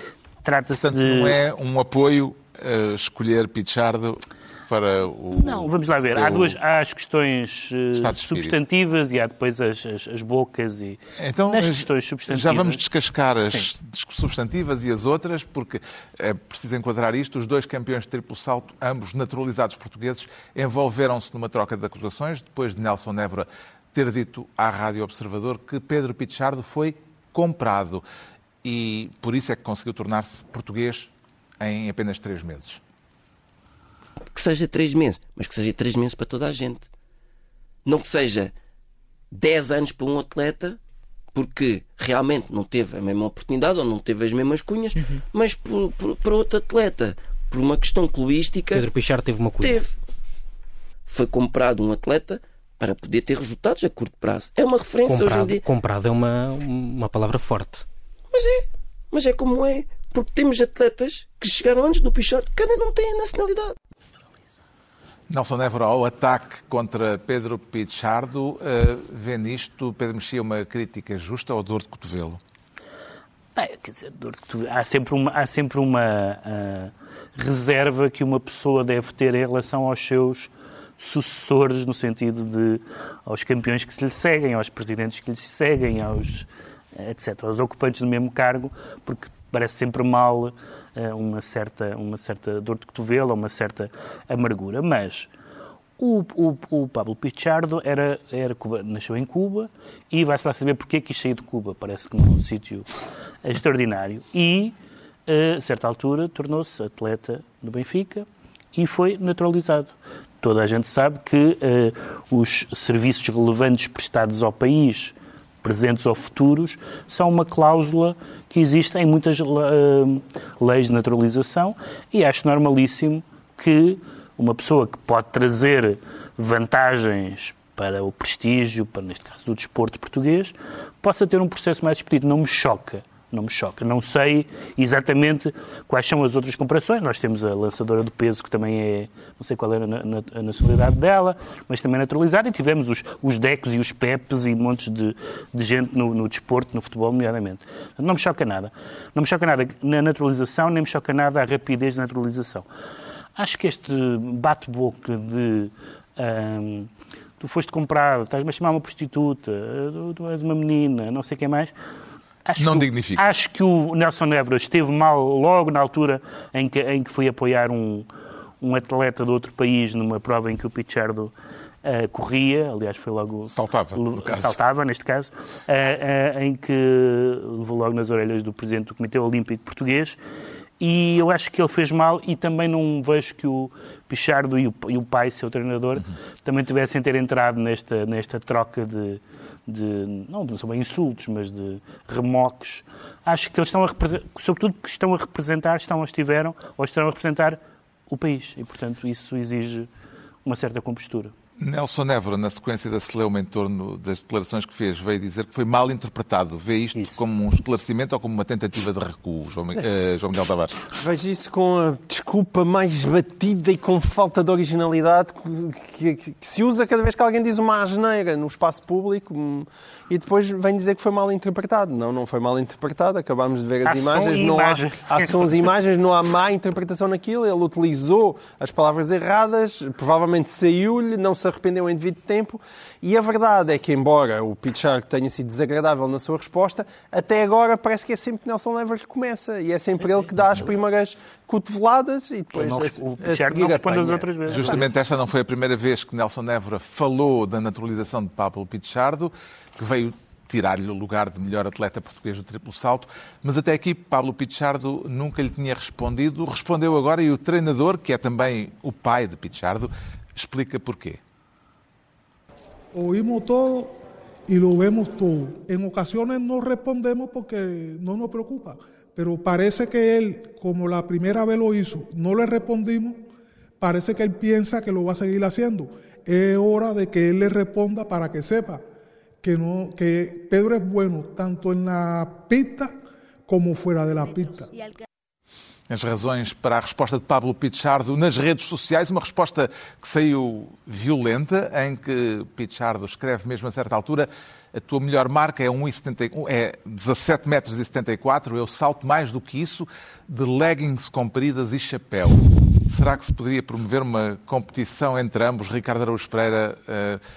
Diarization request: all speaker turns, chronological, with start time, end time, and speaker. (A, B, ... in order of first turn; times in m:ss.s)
0:00.4-0:01.4 A
0:00.7-0:06.6 B
0:05.3-0:12.8 A
0:07.9-0:08.6 B
0:11.2-0:28.0 B
0:28.6-0:32.8 B
0:34.3-0:36.9 C
0:37.9-0:38.5 C
0:39.3-0:40.8 C
0:41.3-0:48.9 C
0:48.7-0:49.8 D
0:49.6-0:49.9 C
0:51.1-0:55.6 C
0:55.1-0:57.9 D
0:58.3-1:03.7 C
1:05.3-1:12.4 B
1:13.6-1:35.3 A
1:36.0-1:42.9 A
1:43.4-1:44.8 A
1:45.3-2:32.7 A
2:33.4-2:41.7 A
2:42.4-2:48.1 A
2:42.6-2:43.2 B
2:48.6-2:51.3 A
2:51.8-3:00.2 A
2:53.5-2:54.6 B
3:00.8-3:19.9 A
3:20.4-3:21.3 A
3:21.6-3:30.8 B
3:27.0-3:27.2 A
3:30.9-4:04.3 E
3:43.8-3:45.5 A
4:02.5-4:04.9 A
4:04.5-4:21.2 B
4:22.9-4:33.2 F
4:33.8-4:38.8 F
4:39.4-4:43.0 F
4:43.5-4:44.7 F
4:45.9-5:07.2 B